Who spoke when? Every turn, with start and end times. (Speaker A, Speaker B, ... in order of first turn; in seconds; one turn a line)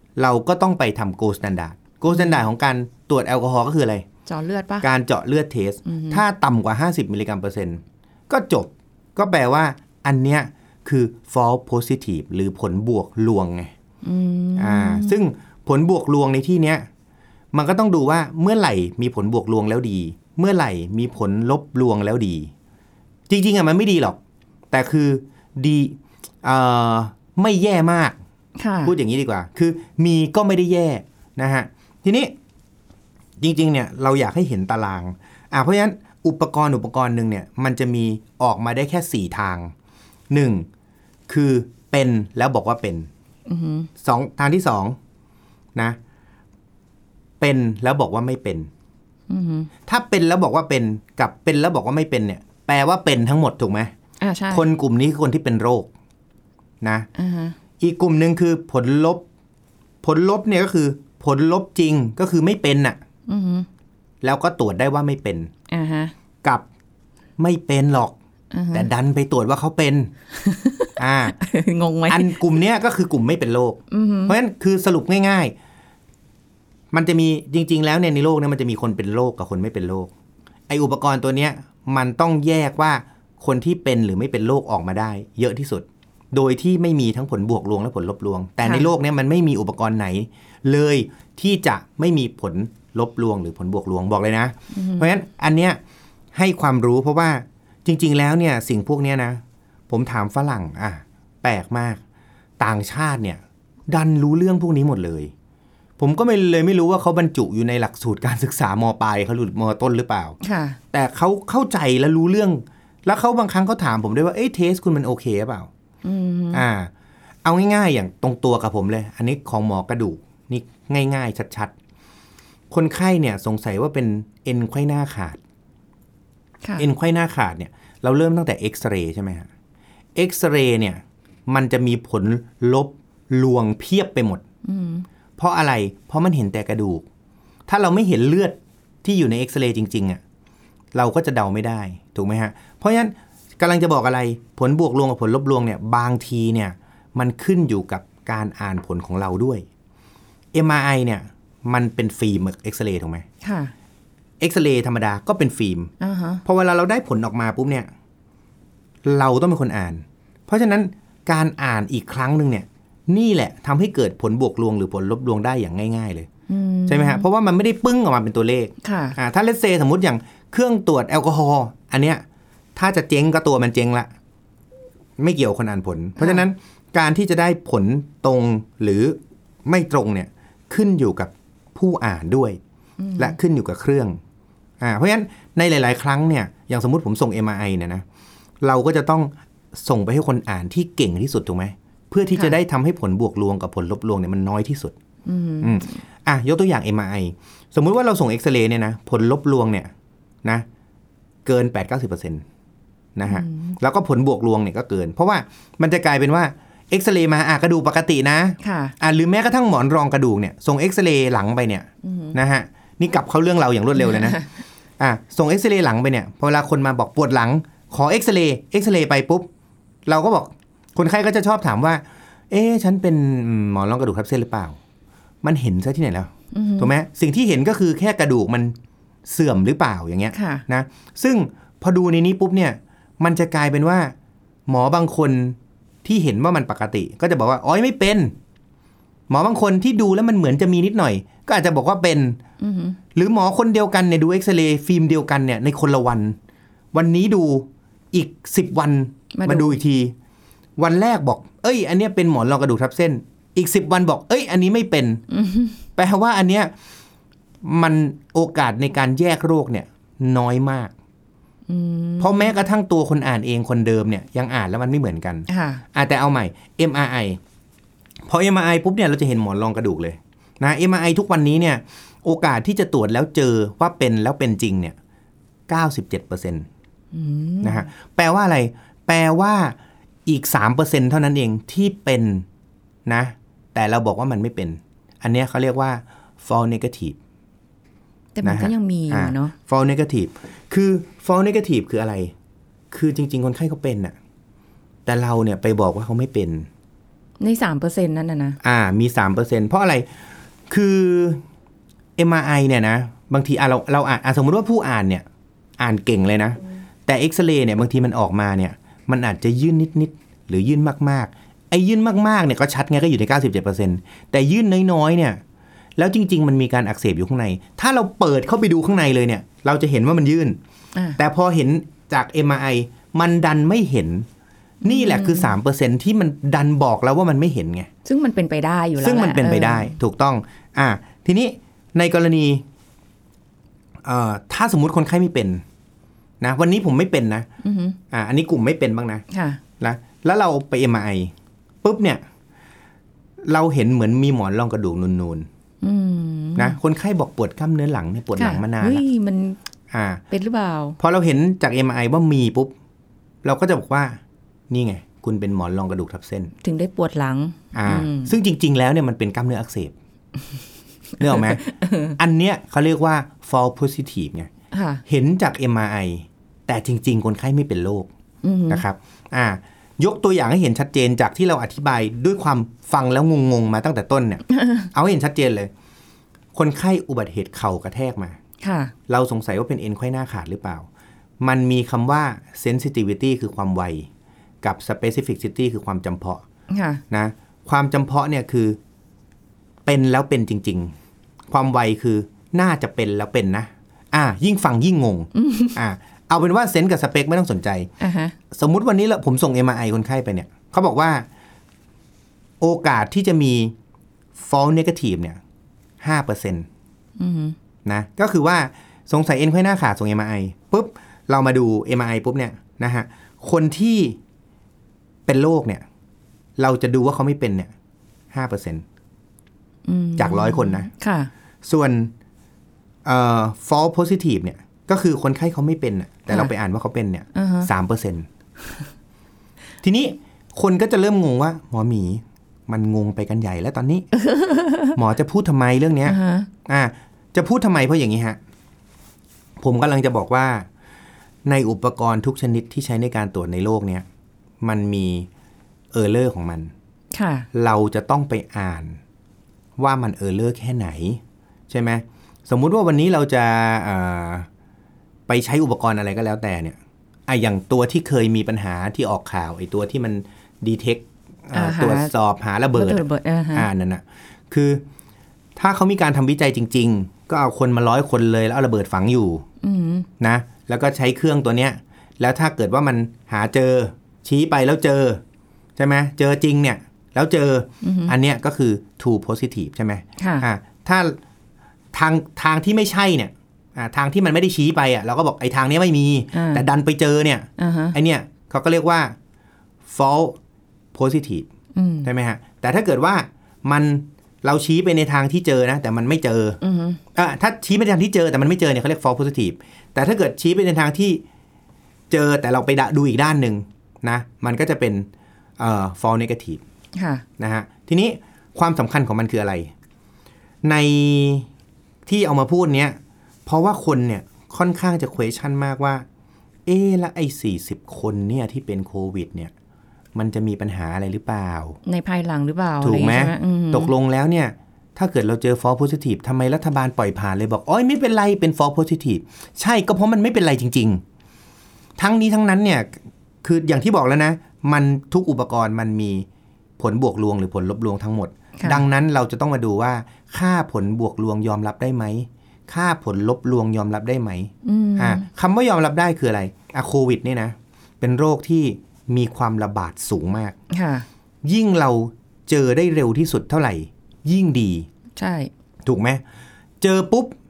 Speaker A: 0.2-4.0
Speaker B: 2.1-2.4
Speaker B: 4.3-4.9
Speaker A: 4.8-13.7
Speaker B: 5.9-6.2
Speaker B: 14.0-15.2
Speaker A: 14.6-16.9
Speaker A: 17.5-22.5
Speaker A: 23.3-24.2
Speaker A: 24.7-28.2
Speaker B: 28.6-28.9
Speaker A: 28.8-32.3
Speaker A: 33.4-39.7
Speaker A: 40.3-40.7
Speaker A: 41.3-43.1
Speaker B: 43.5-43.9
Speaker A: 44.0-45.0
Speaker A: 47.4-48.7
Speaker B: 49.3-49.7
Speaker A: 49.9-53.9
Speaker B: 54.2-54.7
Speaker A: 54.5-55.9
Speaker A: 56.8-57.1
Speaker B: 57.2-57.6
Speaker A: 57.8-59.2
Speaker A: 60.0-63.0
Speaker B: 63.3-63.7
Speaker A: 64.2-65.5
Speaker B: 65.7-66.1
Speaker A: 67.4-68.2
Speaker B: 68.5-68.9
Speaker A: 68.7-70.1
Speaker B: 70.4-72.6
Speaker A: 71.0-71.4
Speaker A: 72.1-75.5
Speaker B: 73.9-74.3
Speaker A: 76.9-80.1
Speaker A: 80.7-95.8
Speaker B: 88.6-88.9
Speaker B: 94.7-95.1
Speaker A: 96.3-102.0
Speaker A: 102.6-105.3
Speaker A: 106.0-110.4
Speaker B: 110.4-110.8
Speaker A: 110.9-115.7
Speaker B: 116.0-116.6
Speaker A: 116.5-116.9
Speaker A: 117.4-121.7
Speaker A: 122.7-125.4
Speaker B: 126.6-126.9
Speaker A: 126.8-129.5
Speaker A: 130.2-134.4
Speaker B: 134.7-135.1
Speaker A: 135.4-137.1
Speaker A: 137.7-140.2
Speaker A: 140.9-149.7
Speaker A: 150.5-153.2
Speaker B: 153.4-153.7
Speaker A: 154.4-155.9
Speaker B: 156.0-156.4
Speaker A: 156.4-157.9
Speaker A: 159.1-166.3
Speaker B: 166.5-167.2
Speaker A: 166.9-172.2
Speaker B: 168.8-169.2
Speaker A: 172.8-174.1
Speaker A: 175.2-182.6
Speaker B: 176.2-176.4
Speaker B: 183.0-183.4
Speaker A: 183.2-184.2
Speaker A: 184.8-188.1
Speaker A: 188.6-195.0
Speaker B: 195.3-196.0
Speaker A: 195.6-199.9
Speaker A: 201.4-202.4
Speaker A: 203.2-214.4
Speaker B: 203.3-203.8
Speaker B: 208.6-208.9
Speaker B: 212.0-212.4
Speaker B: 214.0-214.4
Speaker A: 215.0-219.5
Speaker A: 220.1-224.8
Speaker A: 225.4-228.8
Speaker B: 226.5-226.9
Speaker A: 229.3-234.2
Speaker B: 230.3-230.6
Speaker A: 234.7-238.3
Speaker A: 239.3-242.4
Speaker B: 242.6-243.0
Speaker A: 243.2-246.4
Speaker A: 246.9-250.2
Speaker B: 249.3-249.8
Speaker A: 250.8-255.2
Speaker B: 255.3-255.8
Speaker A: 256.0-256.7
Speaker A: 257.6-260.9
Speaker B: 261.7-262.5
Speaker A: 262.2-267.4
Speaker B: 265.5-265.8
Speaker A: 268.3-275.0
Speaker A: 275.7-276.7
Speaker B: 277.1-277.9
Speaker A: 277.6-282.5
Speaker A: 283.1-287.2
Speaker B: 288.4-289.5
Speaker A: 288.4-292.3
Speaker A: 292.9-294.1
Speaker A: 295.1-296.7
Speaker B: 297.4-298.6
Speaker A: 298.6-300.1
Speaker A: 300.7-301.4
Speaker A: 302.2-305.3
Speaker A: 305.8-315.4
Speaker A: 316.0-320.6
Speaker A: 321.2-324.3
Speaker A: 324.8-327.9
Speaker B: 324.8-325.5
Speaker B: 328.1-329.9
Speaker A: 329.0-332.6
Speaker A: 334.0-335.6
Speaker A: 336.4-337.5
Speaker B: 337.6-338.0
Speaker A: 338.1-339.2
Speaker B: 339.3-339.6
Speaker A: 339.8-342.2
Speaker A: 343.4-345.5
Speaker B: 345.8-346.8
Speaker A: 346.6-349.0
Speaker B: 348.4-349.6
Speaker A: 349.9-350.2
Speaker B: 350.3-351.0
Speaker A: 351.0-352.7
Speaker A: 353.4-356.5
Speaker B: 356.6-358.3
Speaker A: 357.7-359.9
Speaker A: 361.2-364.5
Speaker B: 361.2-362.1
Speaker B: 364.7-365.0
Speaker A: 365.1-368.1
Speaker B: 368.4-368.8
Speaker A: 368.7-375.7
Speaker B: 374.5-374.9
Speaker A: 376.5-378.4
Speaker B: 378.6-378.9
Speaker A: 379.1-380.9
Speaker A: 381.4-384.1
Speaker A: 384.6-386.4
Speaker B: 386.7-387.0
Speaker A: 387.1-388.8
Speaker A: 389.9-390.9
Speaker A: 391.5-397.9
Speaker B: 395.4-395.8
Speaker B: 398.0-398.4
Speaker A: 398.5-401.3
Speaker A: 402.6-403.8
Speaker A: 404.4-405.4
Speaker A: 406.0-406.7
Speaker B: 407.2-407.6
Speaker A: 407.9-414.2
Speaker A: 415.3-415.9
Speaker A: 416.6-417.7
Speaker A: 418.3-418.8
Speaker B: 419.9-421.3
Speaker A: 420.2-420.9
Speaker A: 421.6-422.1
Speaker A: 423.1-428.3
Speaker B: 427.4-427.7
Speaker A: 429.8-434.1
Speaker B: 434.1-435.0
Speaker A: 434.9-438.4
Speaker B: 436.1-436.5
Speaker A: 439.6-440.7
Speaker A: 441.4-444.1
Speaker A: 444.6-445.3
Speaker A: 445.9-446.7
Speaker B: 447.1-447.5
Speaker A: 447.5-449.0
Speaker A: 449.8-454.5
Speaker A: 455.3-464.8
Speaker B: 461.5-462.1
Speaker B: 462.7-463.7
Speaker A: 465.6-469.4
Speaker B: 469.6-470.1
Speaker A: 470.2-475.2
Speaker A: 475.8-481.2
Speaker B: 477.8-478.1
Speaker B: 480.2-480.5
Speaker A: 481.9-489.2
Speaker B: 486.3-486.6
Speaker B: 487.6-488.0
Speaker A: 489.9-490.4
Speaker A: 490.9-491.5
Speaker B: 491.8-492.1
Speaker A: 492.0-496.6
Speaker B: 496.6-497.0
Speaker A: 497.1-501.2
Speaker A: 502.1-506.6
Speaker B: 507.0-507.2
Speaker A: 507.4-509.7
Speaker A: 510.6-511.5
Speaker A: 512.1-516.0
Speaker A: 516.7-519.5
Speaker A: 520.1-521.8
Speaker B: 521.9-523.9
Speaker A: 522.8-531.0
Speaker A: 532.0-536.3
Speaker A: 536.8-550.6
Speaker B: 538.6-538.8
Speaker B: 544.6-545.2
Speaker B: 550.7-551.1
Speaker A: 551.4-554.9
Speaker B: 555.2-555.5
Speaker A: 555.8-556.2
Speaker A: 556.8-557.4